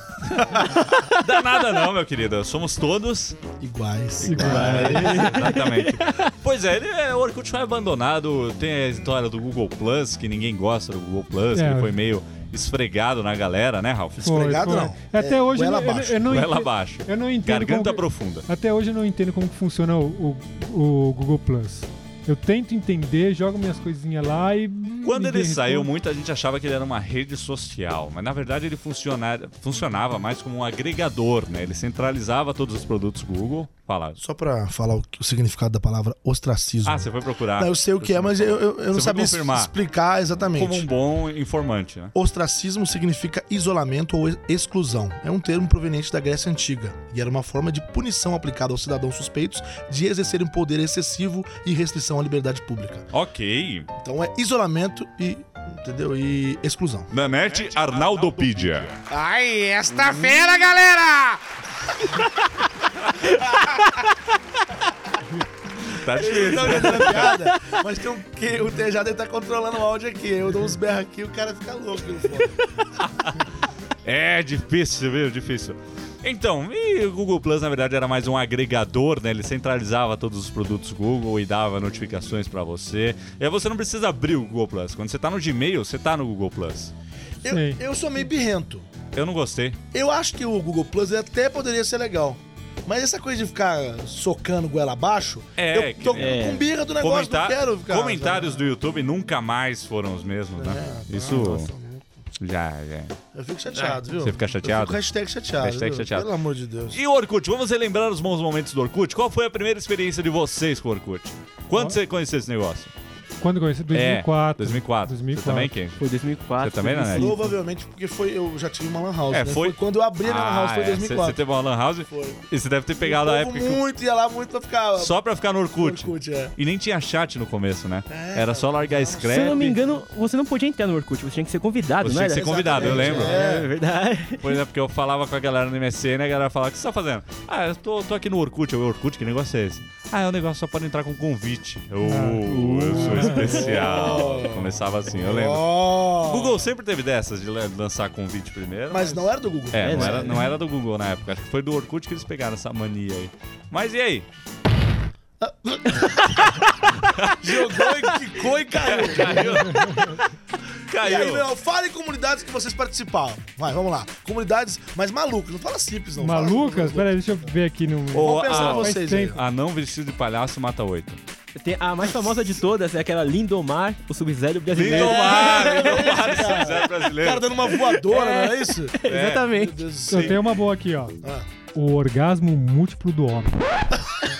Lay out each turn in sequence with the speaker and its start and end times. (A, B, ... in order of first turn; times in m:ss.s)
0:00.2-0:03.4 A
0:03.6-0:05.4 B
0:04.2-0:05.3 C
0:04.2-0:06.2 D
0:04.5-0:14.8 A
0:11.5-0:12.0 C
0:14.2-0:25.9 C
0:14.2-0:16.3 B
0:16.2-0:18.4 A
0:25.0-0:34.2 A
0:34.2-0:40.9 B
0:36.8-0:39.7 A
0:40.5-0:42.1 A
0:42.1-0:53.1 B
0:53.1-0:53.9 A
0:54.0-0:57.4 B
0:57.1-0:59.0 A
0:59.0-1:01.4 B
1:03.4-1:03.8 B
1:05.8-1:07.4 A
1:06.1-1:12.6 B
1:06.6-1:07.6 D
1:14.0-1:26.9 A
1:27.4-1:28.9 B
1:27.4-1:27.8 C
1:29.1-1:29.8 A
1:29.9-1:38.7 B
1:35.6-1:41.7 A
1:36.2-1:36.7 D
1:40.5-1:42.0 B
1:42.4-1:43.1 A
1:43.3-1:47.0 B
1:43.7-1:44.0 D
1:44.1-1:45.0 A
1:45.6-1:46.3 A
1:46.9-1:52.9 A
1:53.4-1:55.8 C
1:53.9-1:56.0 A
1:56.0-1:57.5 D
1:56.6-1:57.4 A
1:57.1-2:01.5 B
1:59.3-2:03.8 A
2:02.0-2:02.4 B
2:03.0-2:06.6 B
2:05.0-2:09.8 A
2:08.1-2:09.9 B
2:09.2-2:14.6 D
2:12.0-2:13.4 A
2:12.4-2:13.7 B
2:14.4-2:34.3 A
2:22.0-2:23.6 C
2:22.5-2:24.3 D
2:23.4-2:26.7 B
2:28.9-2:30.4 B
2:29.8-2:30.5 D
2:35.4-2:36.6 B
2:37.0-2:40.2 A
2:37.4-2:39.6 B
2:39.8-2:40.2 C
2:40.9-2:41.5 A
2:41.0-2:47.2 B
2:46.2-2:49.4 C
2:48.1-2:51.2 A
2:48.2-2:49.4 B
2:51.5-2:56.6 D
2:54.7-2:57.9 A
2:54.9-3:00.4 B
2:58.0-2:59.8 D
2:59.0-2:59.6 A
3:00.1-3:01.2 C
3:00.1-3:00.4 A
3:01.7-3:03.6 C